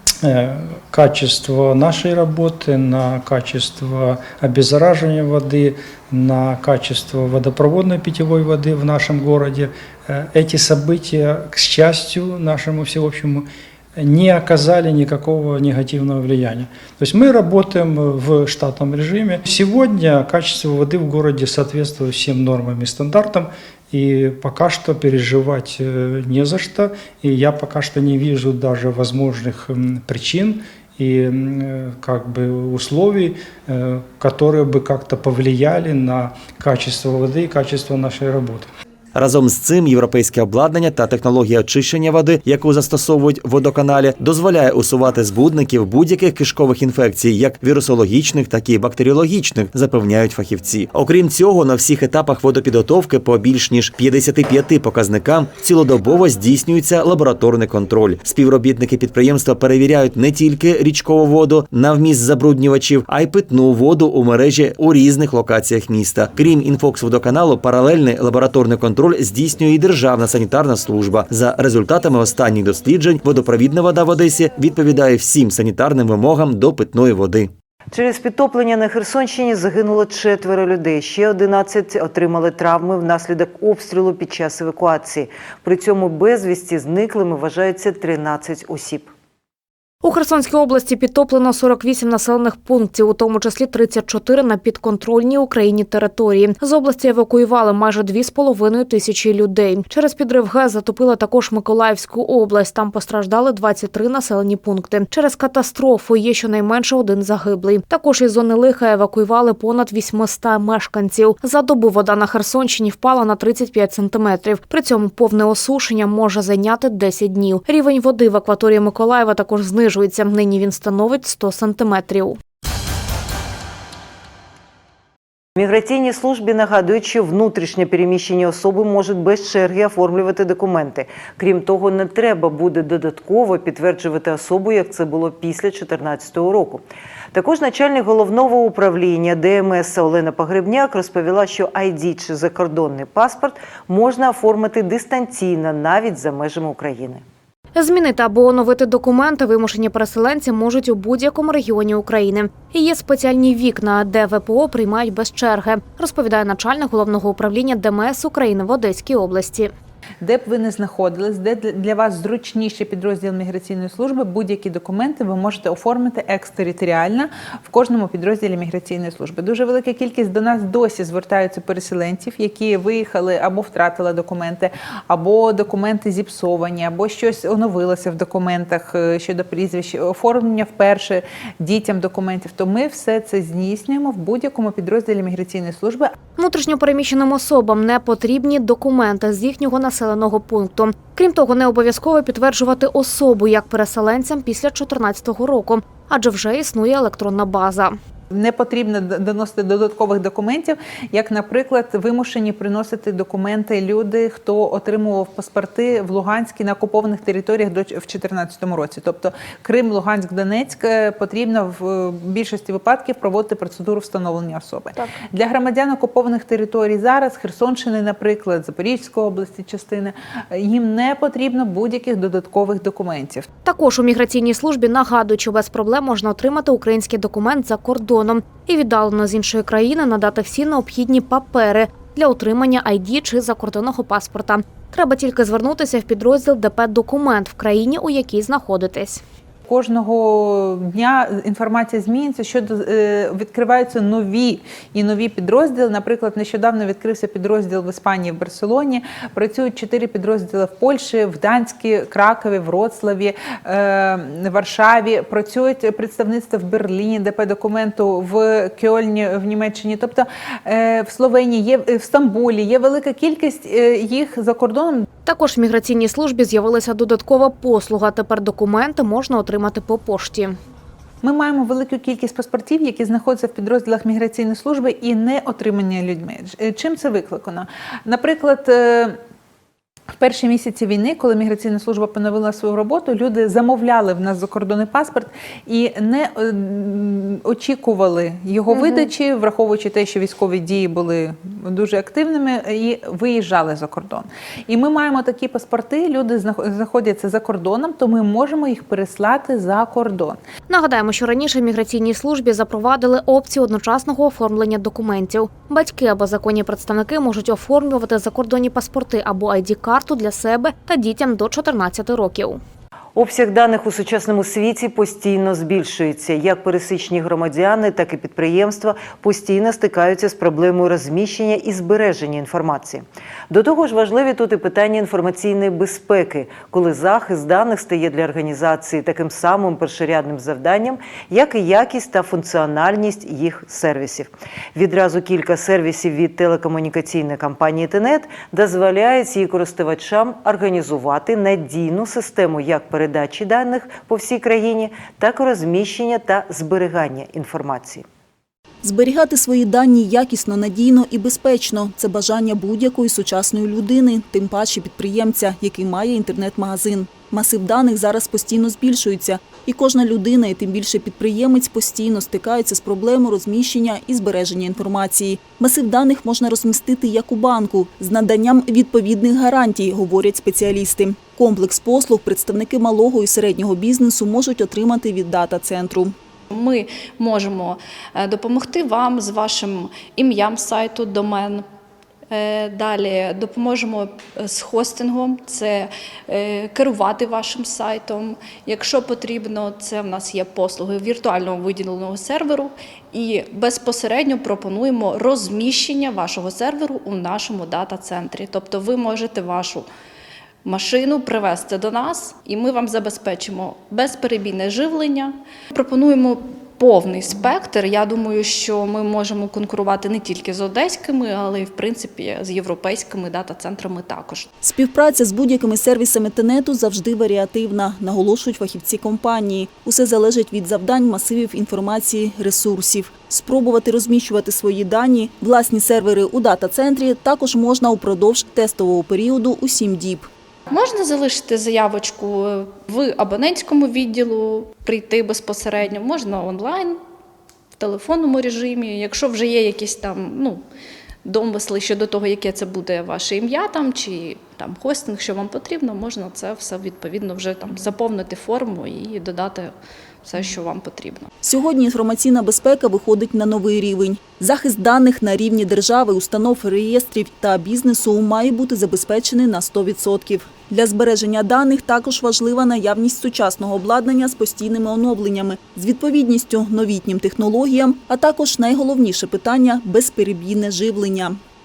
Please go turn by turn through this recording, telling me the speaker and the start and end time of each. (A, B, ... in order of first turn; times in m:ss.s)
0:00.2-0:38.7 A
0:39.1-1:17.5 B
1:17.9-1:29.1 C
1:30.0-2:02.4 D
2:05.6-2:16.8 C
2:17.3-2:27.2 C
2:27.8-2:39.7 D
2:40.2-3:06.1 E
3:06.4-3:18.0 D
3:18.3-3:43.5 E
3:43.6-3:59.2 D
3:59.7-4:25.0 E
4:25.2-4:30.6 D
4:31.2-4:39.2 E
4:40.2-5:00.4 E
4:48.7-4:49.0 D
5:00.7-5:12.6 D
5:13.1-5:48.0 C
5:48.8-6:16.1 F
6:16.5-6:21.6 G
6:22.3-6:39.9 G
6:40.6-6:54.5 G
6:54.6-7:10.3 F
7:10.7-7:17.0 G
7:17.8-7:20.6 G
7:21.2-7:31.3 G
7:31.4-7:51.4 F